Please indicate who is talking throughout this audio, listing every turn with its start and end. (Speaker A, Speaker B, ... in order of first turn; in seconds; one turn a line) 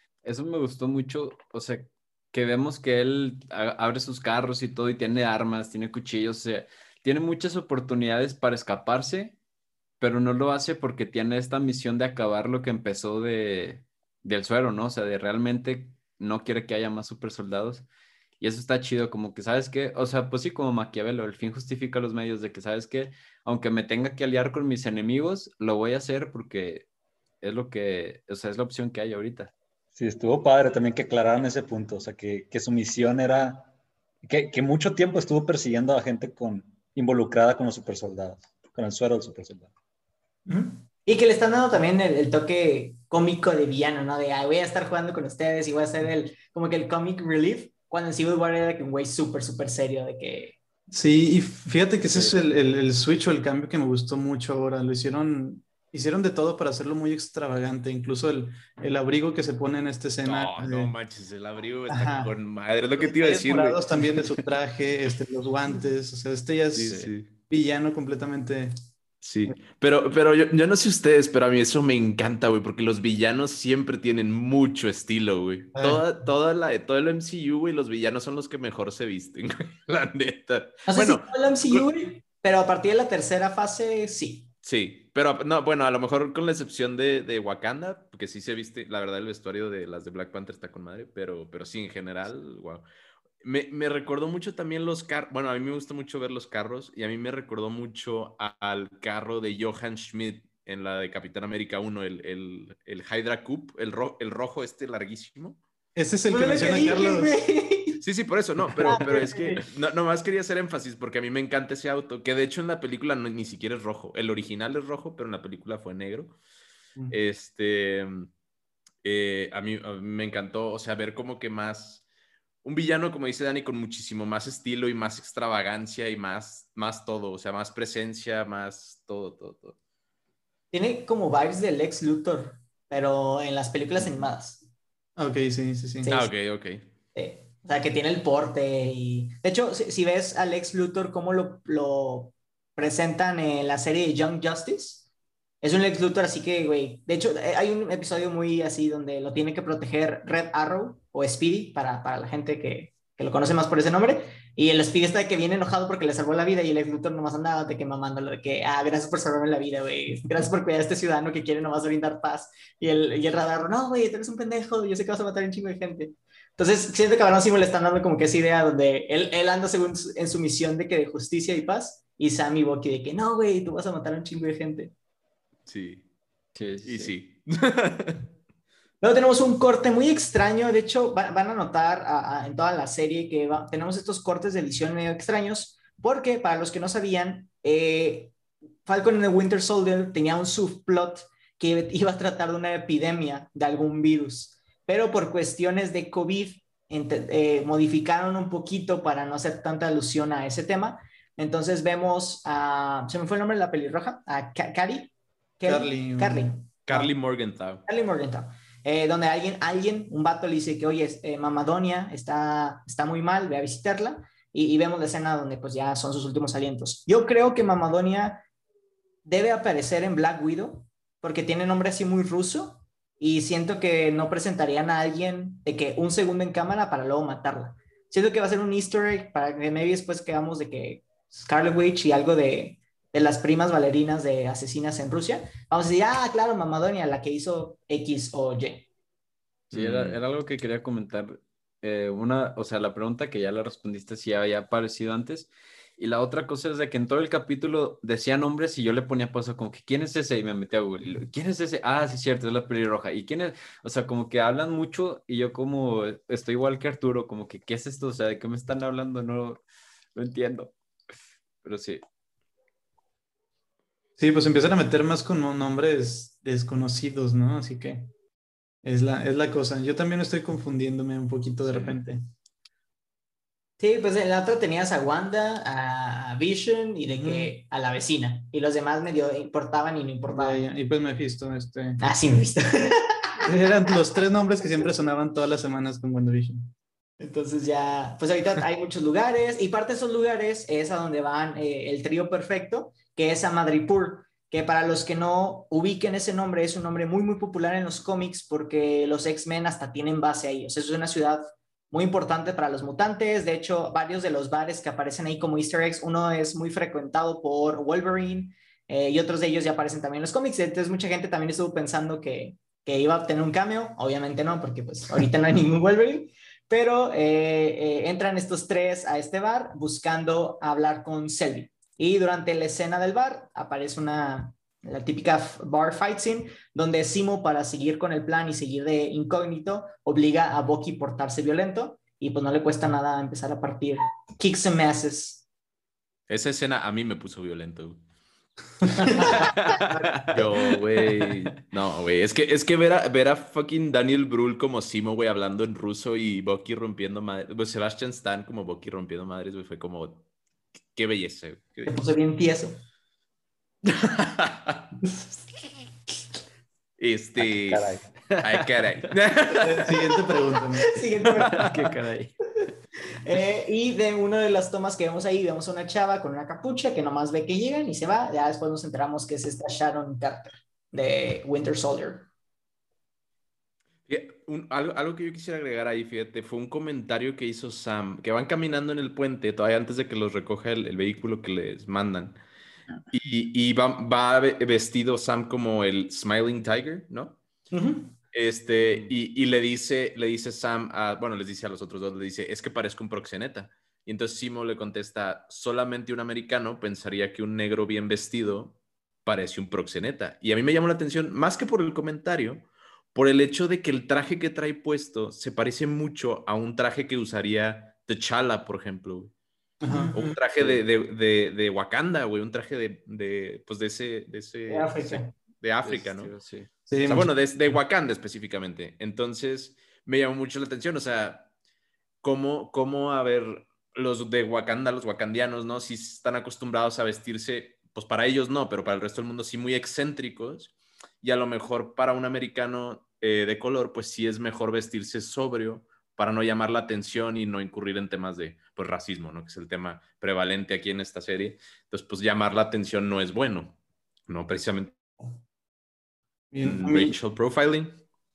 Speaker A: 0.2-9.4
Speaker A: 10.0-17.9
Speaker A: 18.4-26.9
Speaker A: 27.4-29.5
Speaker B: 29.9-33.7
Speaker B: 34.2-39.7
Speaker C: 40.5-50.6
Speaker D: 50.9-60.9
Speaker A: 52.1-52.4
Speaker E: 60.2-64.4
Speaker D: 61.9-62.3
Speaker D: 63.0-68.7
Speaker E: 66.7-67.3
Speaker E: 69.2-81.9
Speaker D: 75.7-76.0
Speaker C: 80.9-84.5
Speaker E: 84.6-92.8
Speaker E: 93.4-105.6
Speaker D: 105.9-107.4
Speaker C: 106.3-108.0
Speaker E: 108.0-116.3
Speaker D: 108.7-109.0
Speaker C: 108.8-109.6
Speaker E: 117.1-118.3
Speaker E: 119.0-122.0
Speaker E: 122.6-129.8
Speaker C: 130.7-134.6
Speaker D: 135.2-136.1
Speaker C: 136.0-136.3
Speaker E: 136.1-136.8
Speaker C: 137.1-145.0
Speaker C: 145.6-174.9
Speaker E: 175.7-176.0
Speaker A: 176.5-177.1
Speaker E: 176.8-178.3
Speaker C: 179.0-188.3
Speaker C: 188.8-207.1
Speaker D: 205.6-206.6
Speaker E: 206.8-207.8
Speaker C: 207.8-218.4
Speaker C: 219.2-238.9
Speaker A: 239.7-259.6
Speaker E: 239.7-240.2
Speaker A: 260.1-260.7
Speaker A: 261.6-262.0
Speaker D: 264.2-268.1
Speaker D: 268.8-272.2
Speaker A: 271.7-272.0
Speaker C: 273.8-280.6
Speaker D: 277.1-277.5
Speaker D: 280.3-282.0
Speaker C: 282.0-283.4
Speaker D: 283.4-286.7
Speaker C: 287.2-335.4
Speaker E: 336.3-338.0
Speaker D: 338.8-339.3
Speaker C: 339.0-340.2
Speaker E: 339.2-350.2
Speaker E: 350.9-351.9
Speaker C: 351.9-352.8
Speaker E: 353.8-354.9
Speaker E: 357.0-359.9
Speaker B: 357.4-358.0
Speaker A: 358.3-359.1
Speaker D: 359.6-361.0
Speaker C: 360.8-361.6
Speaker A: 361.5-362.4
Speaker C: 363.1-372.3
Speaker E: 374.1-382.4
Speaker E: 383.1-387.4
Speaker C: 387.7-388.1
Speaker E: 388.3-409.3
Speaker D: 409.8-410.1
Speaker C: 409.9-410.4
Speaker E: 410.1-416.3
Speaker A: 410.6-410.8
Speaker C: 414.7-415.3
Speaker A: 415.8-416.7
Speaker D: 416.9-417.3
Speaker E: 417.0-421.5
Speaker E: 422.2-443.8
Speaker E: 444.3-445.0
Speaker D: 446.5-447.2
Speaker E: 446.6-448.0